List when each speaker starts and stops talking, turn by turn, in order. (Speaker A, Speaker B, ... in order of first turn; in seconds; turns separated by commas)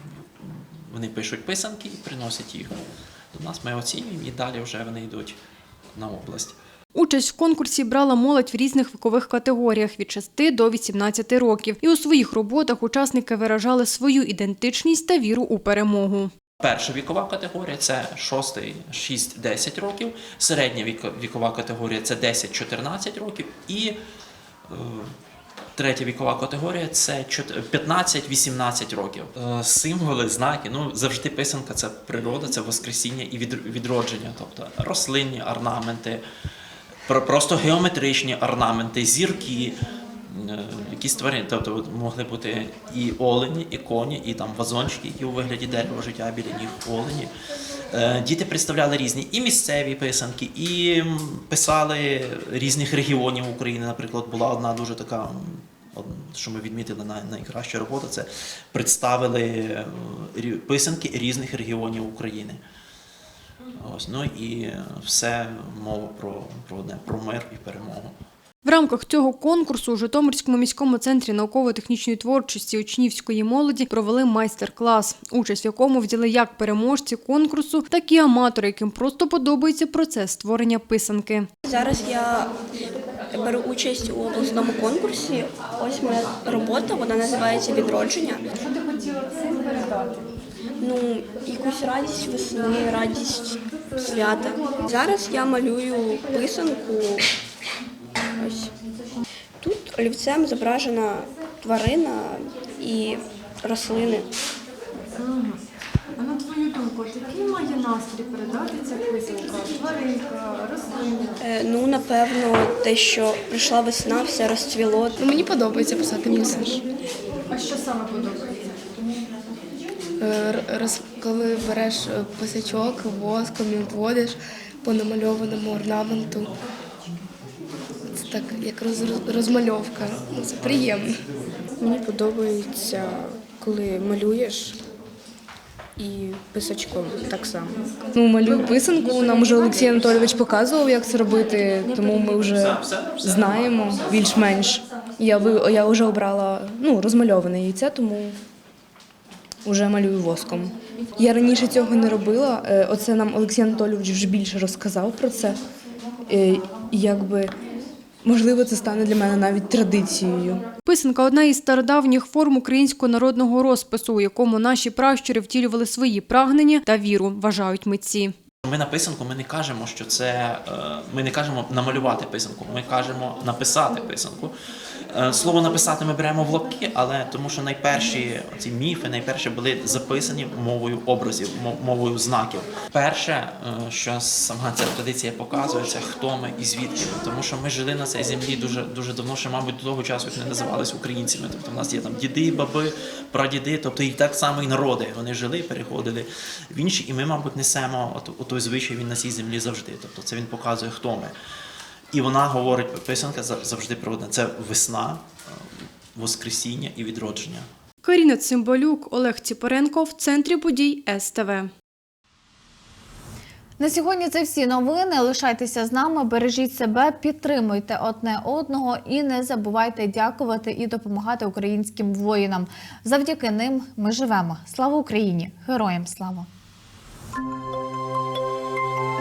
Speaker A: 0.4-2.8, Speaker A: 3.3-5.4, Speaker A: 5.9-6.5, Speaker B: 6.9-16.3, Speaker A: 16.6-23.9, Speaker A: 24.7-25.1, Speaker A: 25.8-36.2, Speaker A: 37.1-47.3, Speaker A: 47.9-62.6, Speaker A: 63.8-68.1, Speaker B: 68.6-81.5, Speaker C: 81.7-82.5, Speaker C: 83.3-88.4, Speaker B: 89.0-90.0, Speaker C: 90.8-97.2, Speaker C: 98.4-98.7, Speaker C: 99.6-104.2, Speaker B: 105.2-105.6, Speaker B: 106.2-111.4, Speaker C: 111.6-115.1, Speaker D: 115.2-116.8, Speaker B: 117.5-118.6, Speaker D: 120.2-126.5, Speaker D: 128.2-131.2, Speaker D: 131.9-134.8, Speaker E: 132.1-134.3, Speaker E: 136.0-136.7, Speaker D: 136.1-148.4, Speaker A: 142.0-144.5, Speaker D: 149.6-155.6, Speaker D: 156.3-157.5, Speaker D: 158.2-160.6, Speaker B: 160.8-168.3, Speaker A: 168.6-174.5, Speaker A: 175.1-201.3, Speaker A: 202.1-205.6, Speaker A: 206.1-207.7, Speaker B: 208.0-211.7, Speaker F: 213.8-226.5